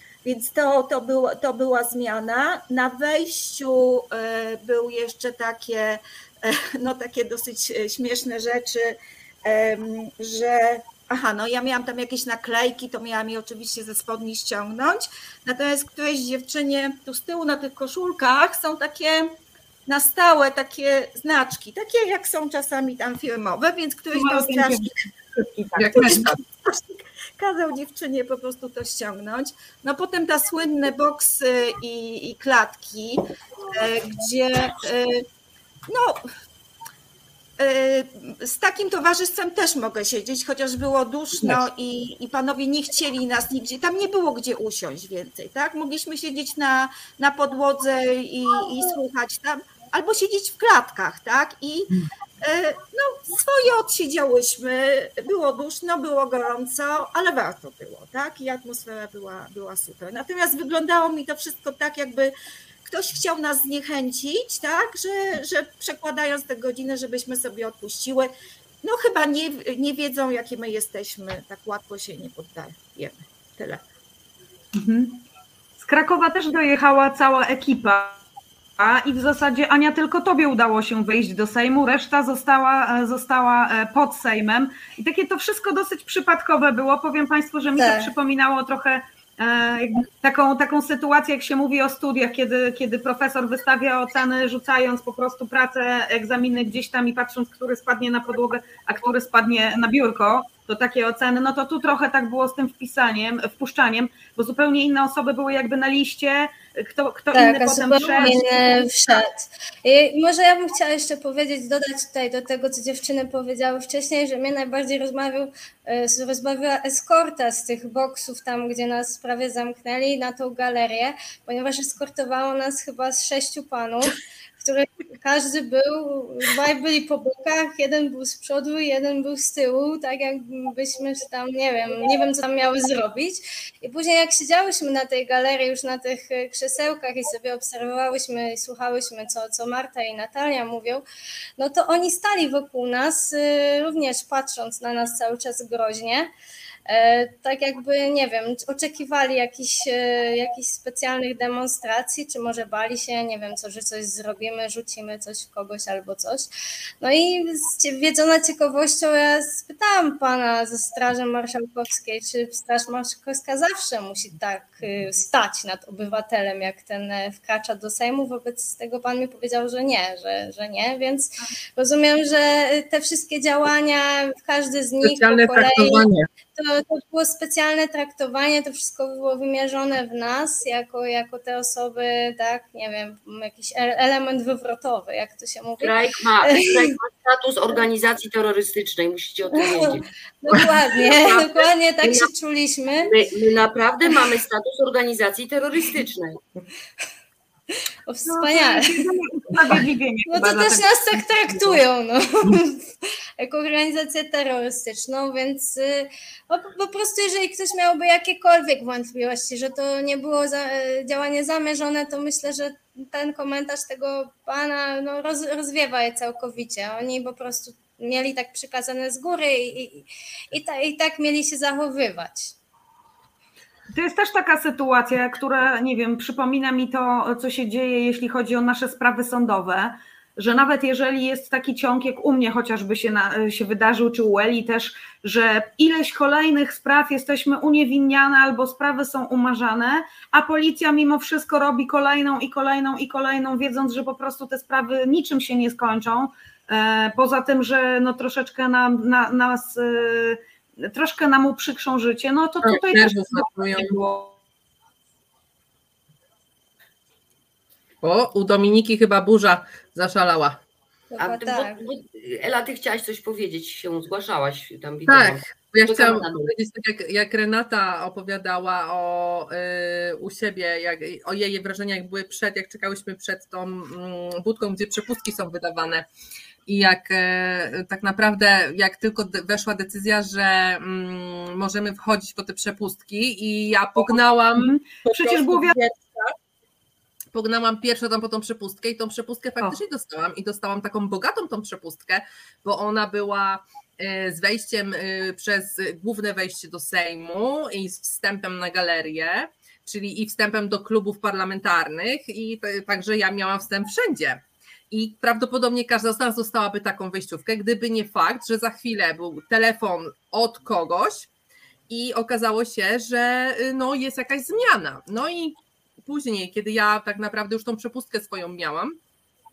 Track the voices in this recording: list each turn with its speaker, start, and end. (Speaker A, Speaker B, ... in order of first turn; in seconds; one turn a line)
Speaker A: 0.2-19.3
Speaker A: 19.9-24.9
Speaker B: 24.1-26.1
Speaker C: 25.8-26.4
Speaker A: 25.9-35.2
Speaker A: 35.9-36.3
Speaker A: 37.6-62.3
Speaker A: 62.8-68.3
Speaker A: 68.8-73.8
Speaker B: 74.8-75.2
Speaker B: 75.8-78.2
Speaker B: 78.8-109.2
Speaker D: 87.7-88.1
Speaker D: 107.3-141.0
Speaker D: 141.6-146.3
Speaker D: 146.9-156.5
Speaker D: 157.0-186.9
Speaker C: 175.0-176.3
Speaker E: 185.8-192.3
Speaker D: 189.5-193.1
Speaker E: 193.1-196.4
Speaker D: 197.8-199.1
Speaker B: 198.2-201.8
Speaker D: 200.3-222.5
Speaker B: 223.9-254.3
Speaker C: 252.6-254.1
Speaker C: 258.0-260.6
Speaker D: 261.1-261.9
Speaker E: 261.2-266.5
Speaker C: 265.1-276.1
Speaker C: 276.7-286.3
Speaker B: 284.6-285.8
Speaker C: 287.3-311.3
Speaker C: 311.9-319.0